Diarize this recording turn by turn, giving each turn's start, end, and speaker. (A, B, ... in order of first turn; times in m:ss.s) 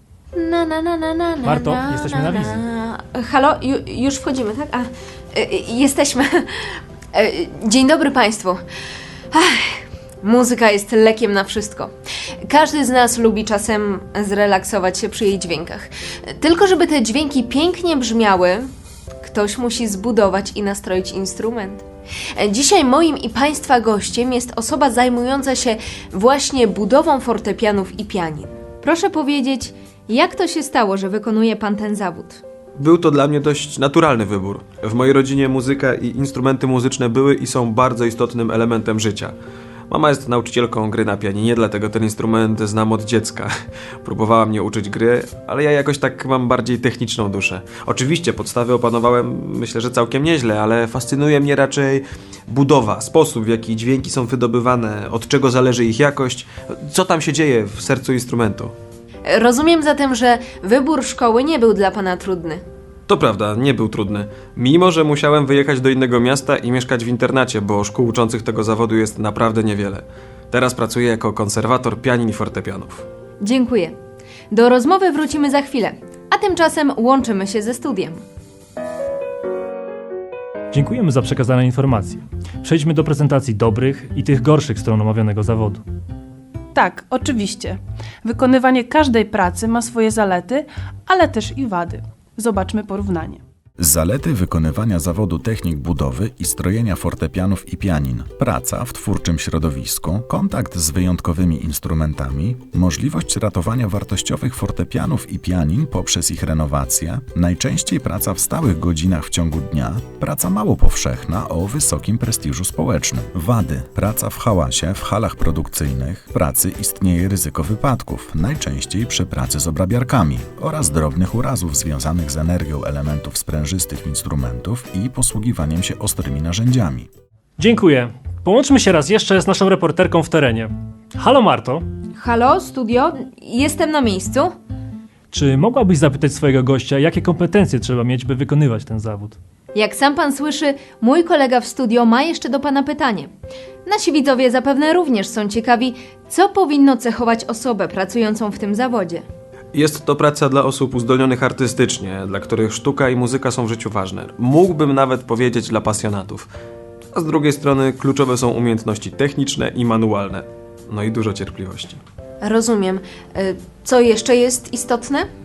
0:00.3-0:08.6 A
0:01.4-0:02.6 B
0:09.3-0:18.7 A
0:19.2-0:32.4 A
0:32.8-0:39.3 C
0:39.9-0:58.7 C
0:59.2-1:02.6 A
1:03.1-1:13.0 C
1:13.4-1:14.0 A
1:14.5-1:18.2 A
1:20.7-1:25.8 B
1:26.7-1:33.4 D
1:33.8-2:07.1 E
2:07.6-2:11.8 B
2:12.1-2:14.5 A
2:15.3-2:19.4 B
2:19.7-2:23.3 A
2:23.8-2:29.2 A
2:29.7-2:36.5 C
2:37.1-2:42.0 C
2:42.4-2:45.3 A